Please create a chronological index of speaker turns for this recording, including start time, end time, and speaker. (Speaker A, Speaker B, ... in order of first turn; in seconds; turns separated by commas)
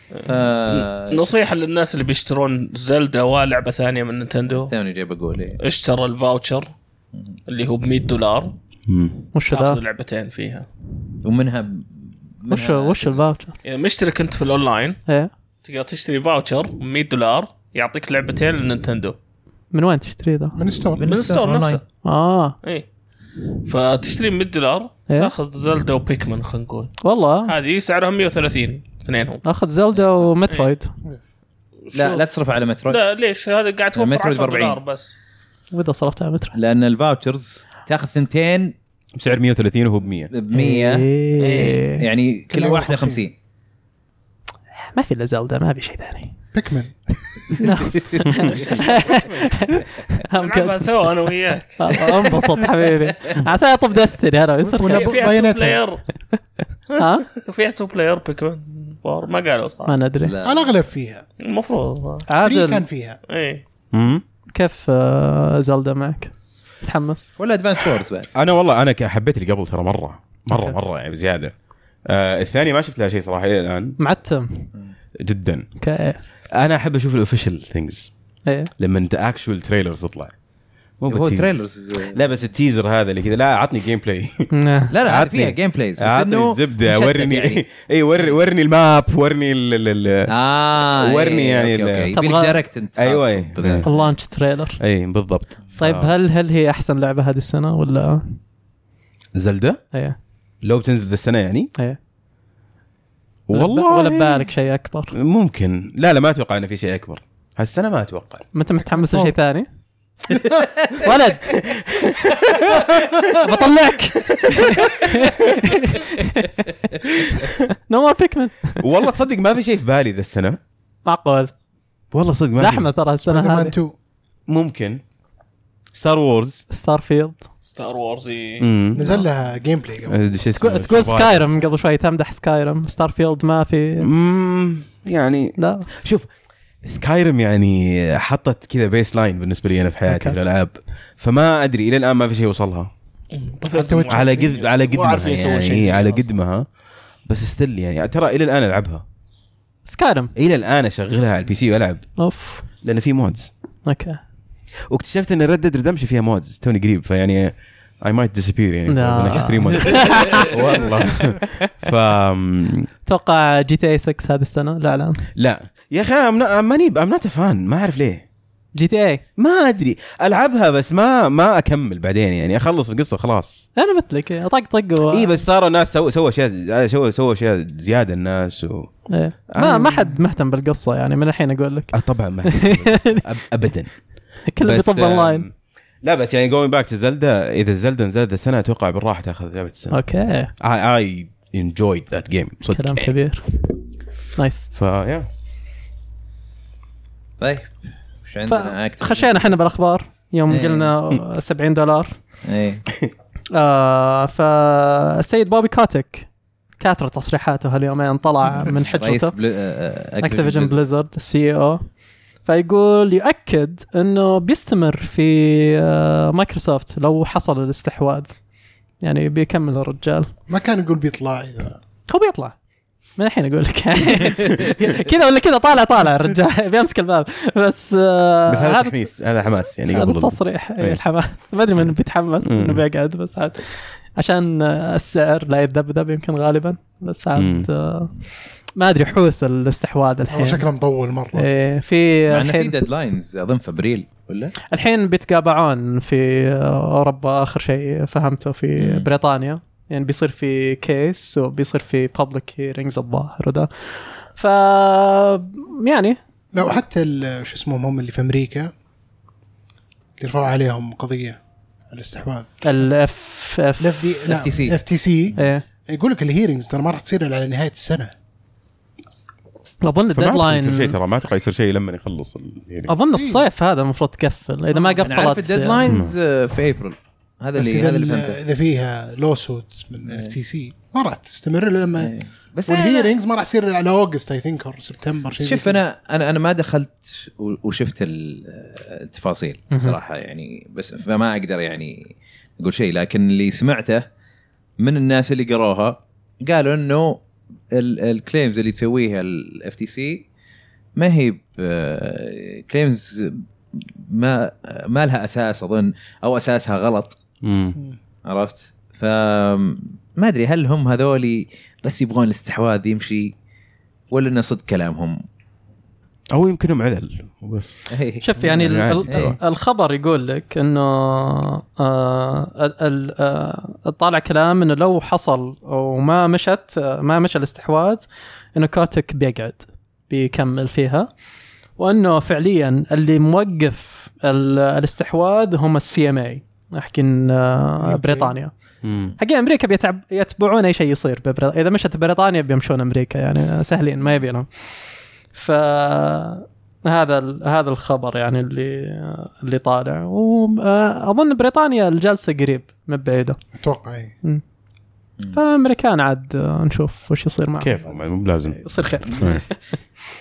Speaker A: 0.1-4.7, Speaker B: 0.3-1.3, Speaker B: 4.7-5.6, Speaker A: 5.6-6.7, Speaker A: 7.5-8.6, Speaker C: 8.9-9.2, Speaker D: 9.3-9.8, Speaker A: 9.5-10.7, Speaker B: 11.2-13.2, Speaker D: 12.5-13.6, Speaker A: 13.6-15.0, Speaker A: 15.6-19.2, Speaker D: 19.7-20.6, Speaker E: 20.6-21.0, Speaker B: 21.0-21.8, Speaker A: 21.0-21.8, Speaker D: 22.0-22.6, Speaker A: 23.6-29.4, Speaker D: 27.0-27.5, Speaker D: 29.4-30.9, Speaker A: 30.0-30.7, Speaker A: 31.9-32.2, Speaker B: 31.9-33.0, Speaker A: 32.9-35.1, Speaker B: 34.0-34.8, Speaker D: 35.7-36.6, Speaker B: 36.5-38.8, Speaker C: 39.1-40.3, Speaker B: 40.3-43.3, Speaker D: 40.5-42.1, Speaker A: 41.4-41.8, Speaker E: 42.5-43.2, Speaker D: 44.8-46.4, Speaker E: 46.5-47.7, Speaker D: 47.6-50.8, Speaker B: 48.5-48.8, Speaker A: 48.6-49.4, Speaker A: 50.3-52.4, Speaker D: 51.8-55.3, Speaker E: 54.7-55.8, Speaker A: 54.8-56.0, Speaker A: 56.9-60.0, Speaker D: 57.0-57.3, Speaker D: 59.9-60.4, Speaker B: 60.2-60.7, Speaker E: 60.4-61.2, Speaker A: 61.4-62.3, Speaker D: 62.3-62.9, Speaker E: 62.4-63.2, Speaker A: 63.3-63.6, Speaker C: 63.9-64.2, Speaker D: 64.5-67.3, Speaker B: 67.4-68.3, Speaker C: 68.3-71.5, Speaker D: 70.5-70.8, Speaker C: 72.1-74.0, Speaker D: 74.0-74.7, Speaker C: 75.2-75.7, Speaker D: 75.8-76.2, Speaker C: 76.5-78.1, Speaker C: 78.8-80.3, Speaker C: 81.0-81.5, Speaker B: 81.1-82.2, Speaker C: 82.1-84.5, Speaker D: 84.5-84.9, Speaker B: 84.9-87.6, Speaker C: 85.0-92.2, Speaker B: 90.3-94.2, Speaker D: 92.1-92.6, Speaker C: 93.0-93.9, Speaker D: 93.8-94.8, Speaker C: 94.8-96.1, Speaker D: 95.8-98.4, Speaker C: 99.3-99.8, Speaker C: 100.6-101.7, Speaker C: 103.5-104.5, Speaker D: 103.5-105.1, Speaker C: 105.1-108.4, Speaker D: 108.5-109.7, Speaker E: 109.0-109.3, Speaker B: 110.6-111.1, Speaker D: 111.0-111.6, Speaker C: 111.5-113.2, Speaker D: 113.4-118.8, Speaker C: 114.2-115.7, Speaker C: 118.8-120.6, Speaker D: 121.1-121.5, Speaker C: 122.1-122.9, Speaker D: 122.6-123.8, Speaker E: 123.2-123.9, Speaker C: 124.5-125.0, Speaker C: 125.9-126.6, Speaker D: 126.7-127.5, Speaker A: 127.6-128.7, Speaker C: 128.6-129.1, Speaker E: 128.9-130.2, Speaker C: 130.1-131.5, Speaker D: 130.6-134.1, Speaker C: 134.0-136.3, Speaker D: 135.6-135.9, Speaker C: 136.8-142.9, Speaker D: 140.1-140.4, Speaker A: 143.3-146.3, Speaker E: 143.6-144.5, Speaker C: 144.1-146.7, Speaker C: 147.2-149.0, Speaker D: 149.8-150.3, Speaker C: 150.3-153.5, Speaker D: 152.2-152.7, Speaker D: 153.8-154.2, Speaker C: 154.9-162.9, Speaker D: 158.9-161.0, Speaker D: 163.1-165.2, Speaker C: 165.4-168.2, Speaker D: 168.8-169.2, Speaker C: 169.4-173.7, Speaker D: 173.8-175.4, Speaker C: 175.1-180.2, Speaker D: 179.1-183.2, Speaker C: 181.9-184.0, Speaker D: 184.5-185.5, Speaker C: 184.6-190.0, Speaker D: 189.9-190.5, Speaker C: 190.6-193.1, Speaker D: 192.7-193.4, Speaker D: 194.4-194.7, Speaker C: 194.7-195.3, Speaker B: 197.4-199.3, Speaker D: 198.5-202.1, Speaker B: 200.5-200.9, Speaker B: 202.4-202.8, Speaker D: 203.5-209.3, Speaker B: 208.5-210.8, Speaker D: 210.2-211.8, Speaker D: 212.4-218.4, Speaker D: 219.0-220.3, Speaker E: 220.5-221.8, Speaker D: 222.1-222.6, Speaker D: 223.2-229.0, Speaker C: 228.5-231.0, Speaker D: 229.9-240.7, Speaker C: 232.4-232.8, Speaker C: 237.4-237.7, Speaker E: 240.3-241.5, Speaker D: 241.3-242.8, Speaker B: 242.3-244.5, Speaker D: 244.7-256.2, Speaker B: 248.8-249.1, Speaker E: 256.5-258.7, Speaker E: 260.2-262.6, Speaker D: 262.6-264.1, Speaker E: 263.8-268.1, Speaker B: 264.3-264.8, Speaker D: 265.4-265.6, Speaker D: 269.8-271.0, Speaker C: 270.1-272.9, Speaker D: 272.9-276.0, Speaker E: 273.1-273.5, Speaker E: 274.7-275.3, Speaker B: 275.1-278.4, Speaker C: 275.9-276.1, Speaker E: 277.6-282.1, Speaker B: 280.1-280.3, Speaker B: 282.0-283.1, Speaker E: 282.7-285.8, Speaker B: 285.4-294.1, Speaker D: 289.7-290.0, Speaker B: 294.8-300.3, Speaker B: 301.0-307.2, Speaker C: 307.4-307.8, Speaker B: 308.2-313.3, Speaker B: 314.1-315.2, Speaker C: 316.3-317.8, Speaker B: 317.9-319.3, Speaker D: 318.2-331.1, Speaker C: 318.4-319.4, Speaker D: 331.8-338.5, Speaker E: 337.8-338.3, Speaker C: 338.8-339.2, Speaker D: 339.2-344.5, Speaker D: 345.3-353.4, Speaker E: 353.6-354.1, Speaker D: 355.3-359.6, Speaker C: 357.6-359.4